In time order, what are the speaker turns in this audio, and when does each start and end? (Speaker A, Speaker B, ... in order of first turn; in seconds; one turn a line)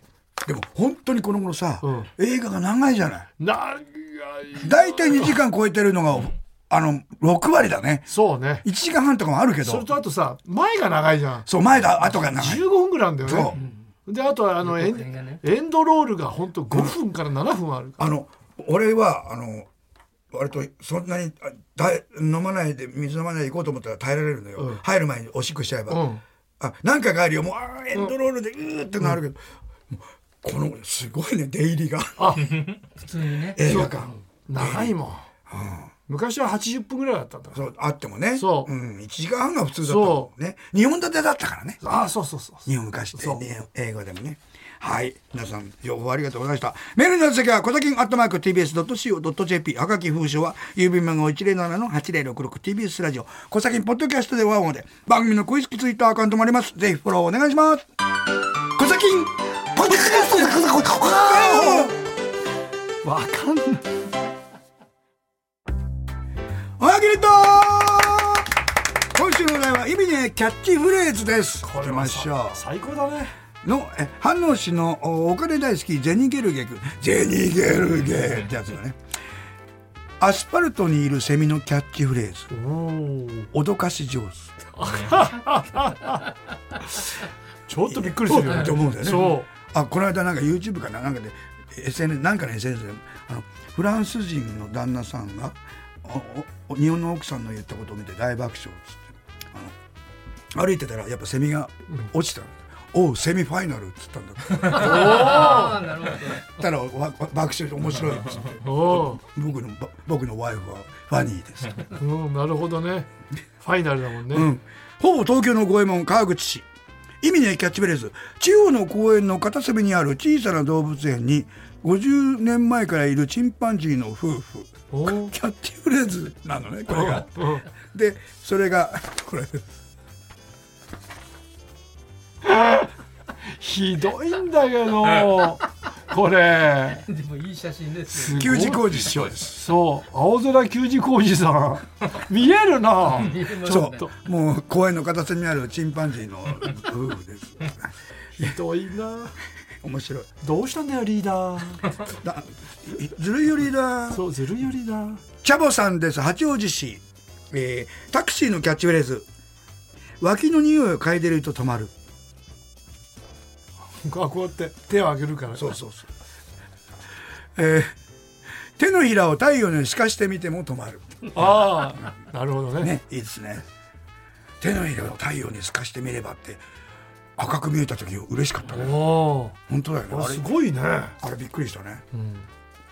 Speaker A: 0.4-3.3
Speaker B: 1.8-2.1
Speaker B: 3.4-5.3
Speaker A: 4.6-8.1
Speaker B: 8.1-8.6
Speaker A: 8.6-9.9
Speaker B: 9.6-11.5
Speaker A: 11.5-12.6
Speaker B: 12.1-18.0
Speaker A: 13.2-13.6
Speaker C: 14.7-15.4
Speaker A: 16.7-16.9
Speaker A: 18.0-19.7
Speaker A: 20.3-26.0
Speaker B: 25.9-26.2
Speaker A: 26.6-32.4
Speaker B: 32.2-32.6
Speaker C: 33.0-34.1
Speaker A: 33.5-35.0
Speaker B: 33.6-35.3
Speaker A: 35.5-35.9
Speaker B: 36.1-37.6
Speaker A: 37.5-41.8
Speaker B: 38.3-38.7
Speaker B: 39.8-40.3
Speaker B: 41.8-43.4
Speaker A: 42.6-57.9
Speaker A: 58.7-62.0
Speaker B: 59.7-61.9
Speaker B: 63.0-63.8
Speaker A: 66.8-68.5
Speaker A: 69.1-72.6
Speaker B: 71.6-73.3
Speaker A: 73.6-79.0
Speaker A: 80.2-82.5
Speaker B: 82.5-83.5
Speaker A: 83.5-84.5
Speaker B: 84.8-86.3
Speaker B: 87.7-89.5
Speaker A: 87.8-99.7
Speaker A: 100.5-105.5
Speaker B: 104.7-105.8
Speaker C: 105.1-106.5
Speaker A: 106.5-111.8
Speaker B: 108.6-109.2
Speaker B: 111.9-113.1
Speaker B: 113.6-114.5
Speaker A: 114.3-116.7
Speaker A: 117.2-127.3
Speaker B: 124.9-125.3
Speaker B: 126.9-127.7
Speaker A: 127.9-129.6
Speaker B: 132.4-132.9
Speaker B: 133.5-137.0
Speaker C: 137.0-138.4
Speaker B: 138.1-144.1
Speaker A: 138.2-139.6
Speaker C: 143.2-144.0
Speaker A: 143.6-148.5
Speaker B: 148.4-149.3
Speaker A: 149.8-150.3
Speaker B: 150.4-151.9
Speaker A: 152.1-154.2
Speaker B: 154.1-155.2
Speaker A: 155.4-159.2
Speaker A: 160.2-161.9
Speaker B: 164.0-165.7
Speaker A: 165.5-166.1
Speaker A: 167.6-167.9
Speaker A: 168.8-171.3
Speaker B: 171.3-172.9
Speaker A: 172.8-173.6
Speaker A: 174.6-176.6
Speaker A: 177.4-179.0
Speaker B: 178.7-179.6
Speaker A: 179.7-180.4
Speaker B: 180.1-181.2
Speaker A: 181.2-182.0
Speaker B: 182.1-182.4